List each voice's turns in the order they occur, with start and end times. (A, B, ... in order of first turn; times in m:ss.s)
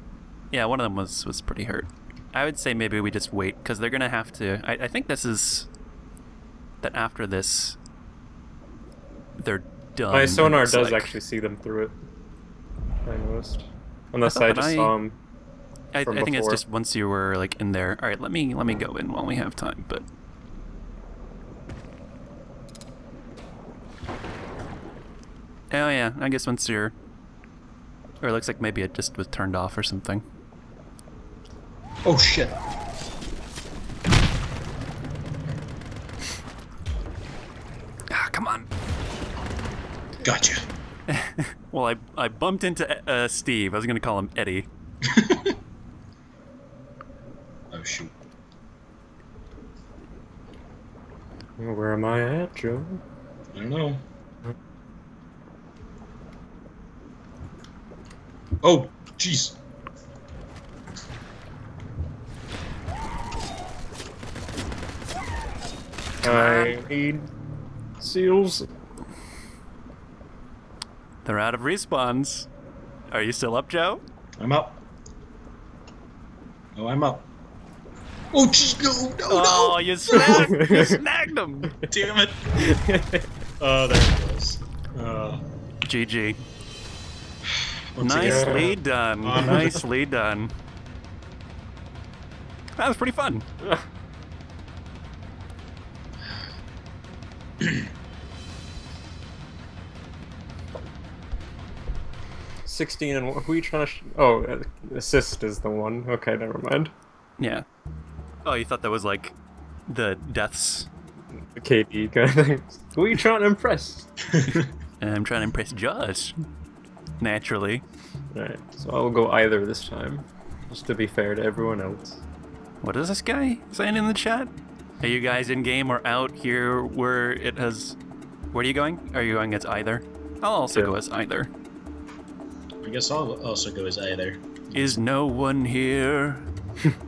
0:00.5-0:05.7 A
0:06.8-0:07.8 A
0:09.4-0:11.1 A
0:10.1-0:12.0 B
0:13.1-0:15.2 B
0:14.2-0:15.0 A
0:15.9-0:20.1 A
0:16.0-0:16.6 B
0:25.7-0:27.0 A
0:28.2-0:30.2 A
0:32.0-0:32.6 C
0:38.1-0:38.7 A
0:40.2-0:40.6 C
0:41.1-0:44.7 A
0:45.0-0:45.5 C
0:47.7-0:48.1 C
0:51.6-0:53.0 B
0:53.5-0:54.0 C
0:58.6-0:59.6 C
1:06.2-1:07.3 B
1:06.2-1:06.8 A
1:08.0-1:08.7 B
1:11.2-1:12.5 A
1:13.1-1:14.0 A
1:14.4-1:14.8 C
1:16.8-1:17.3 C
1:18.3-1:20.4 C
1:19.3-1:21.8 A
1:20.2-1:21.0 B
1:21.9-1:22.6 C
1:22.6-1:23.3 B
1:23.6-1:25.4 C
1:25.8-1:26.4 A
1:27.6-1:29.8 C
1:28.0-1:30.5 A
1:28.2-1:28.8 B
1:32.8-1:33.4 A
1:42.6-1:46.9 B
1:47.4-1:47.6 A
1:48.4-1:49.4 A
1:49.9-1:50.9 A
1:51.5-1:54.1 B
1:54.3-1:54.7 C
1:54.6-1:56.4 A
1:57.2-1:57.8 A
1:58.3-2:02.2 B
2:02.8-2:08.0 A
2:08.5-2:11.5 A
2:12.8-2:15.0 C
2:14.7-2:16.5 A